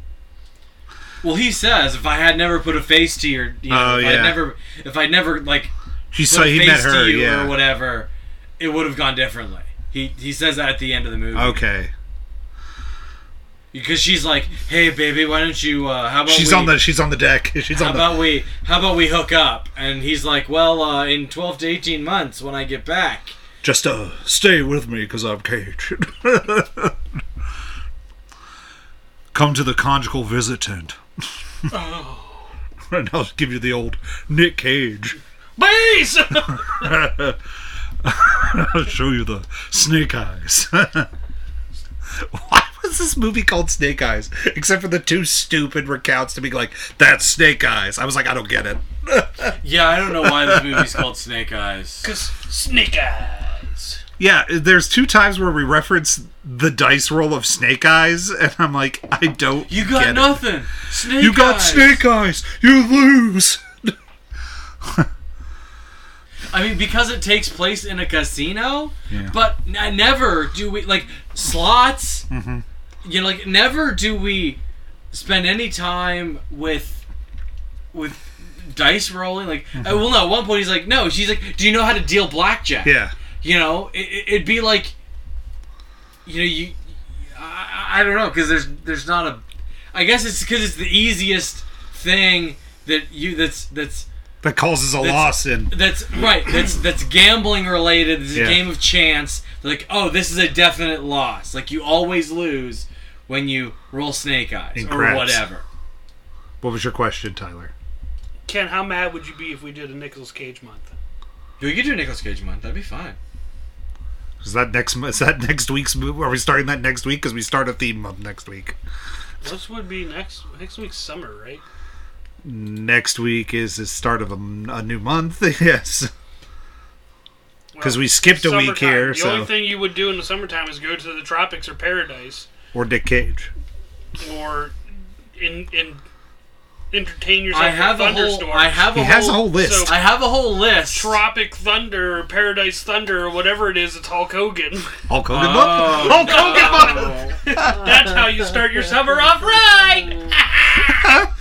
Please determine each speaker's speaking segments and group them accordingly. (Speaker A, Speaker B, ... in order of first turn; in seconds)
Speaker A: 1.2-11.6, 13.7-16.8, 17.7-23.4, 49.6-52.1, 59.7-62.0, 66.5-72.3, 73.0-74.6, 75.1-77.0, 77.9-84.9, 86.3-86.8, 87.3-89.4, 89.9-94.1, 95.0-105.6, 111.6-113.2, 137.5-141.2, 145.3-147.4
Speaker B: 3.7-4.4, 6.1-7.6, 11.3-11.9, 16.3-18.1, 23.6-27.0, 29.3-31.0, 32.9-35.2, 36.7-37.4, 38.0-41.1, 42.2-49.6, 50.1-51.0, 54.2-64.0, 64.8-65.1, 69.1-69.3, 72.3-72.6, 79.8-80.0, 82.8-83.1, 94.4-95.7, 98.3-98.6, 104.8-105.4, 106.6-107.7, 114.4-118.8, 122.4-126.1, 127.8-129.5, 132.7-133.5, 138.9-140.0, 145.1-148.2, 151.0-151.3
Speaker C: 31.7-32.5, 35.6-36.9, 52.0-54.0, 108.5-110.9, 119.4-121.6, 127.7-132.5, 134.2-134.8, 135.4-136.0, 136.9-138.9, 139.5-140.0, 140.9-144.9, 145.7-151.1